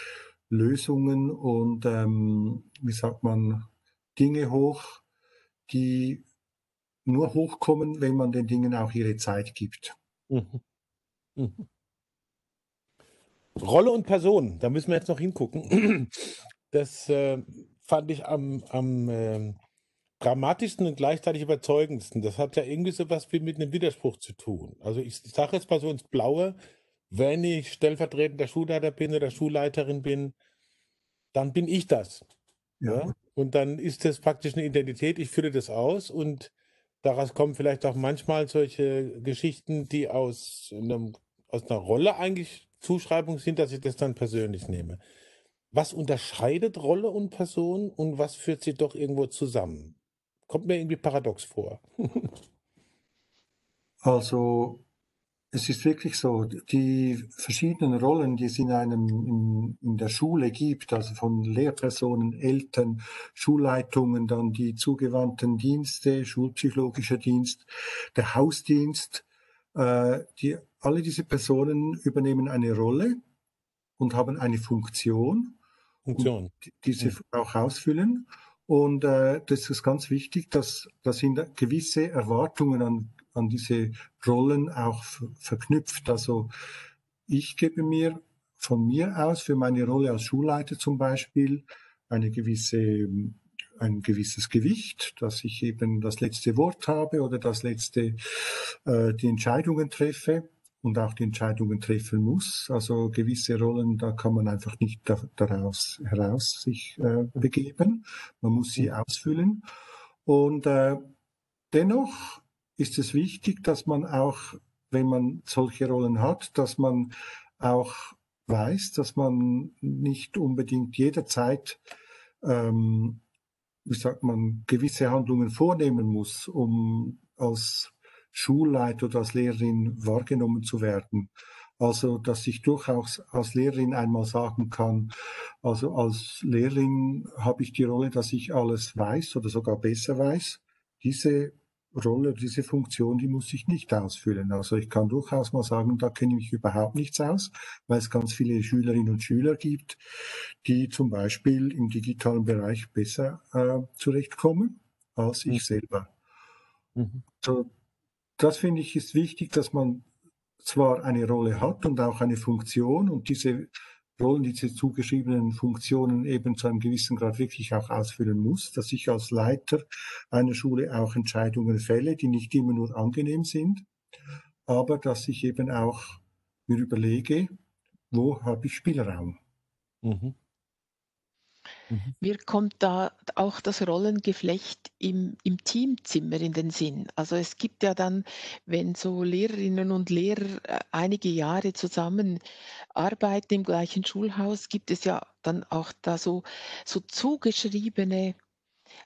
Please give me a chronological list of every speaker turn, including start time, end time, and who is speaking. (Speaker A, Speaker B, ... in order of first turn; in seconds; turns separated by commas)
Speaker A: 0.5-5.0, Speaker A: 5.7-6.3, Speaker A: 7.1-9.9, Speaker B: 10.3-10.6, Speaker B: 11.4-11.7, Speaker B: 13.6-19.6, Speaker B: 20.2-26.6, Speaker B: 27.1-30.3, Speaker B: 31.3-32.2, Speaker A: 32.8-33.1, Speaker B: 32.9-45.0, Speaker B: 45.7-50.0, Speaker B: 50.5-52.4, Speaker A: 54.0-54.9, Speaker A: 55.5-73.2, Speaker A: 74.0-75.6, Speaker B: 76.1-77.2, Speaker A: 76.2-86.5, Speaker A: 87.3-109.6, Speaker A: 110.2-111.1, Speaker A: 111.7-121.8, Speaker A: 122.4-123.2, Speaker A: 123.8-150.0, Speaker A: 150.6-156.1, Speaker B: 157.0-157.2, Speaker A: 157.4-157.7, Speaker A: 158.4-160.1, Speaker A: 160.6-173.9, Speaker A: 174.7-177.5, Speaker A: 178.1-179.4, Speaker B: 180.0-180.3, Speaker C: 182.2-192.4, Speaker C: 192.9-198.4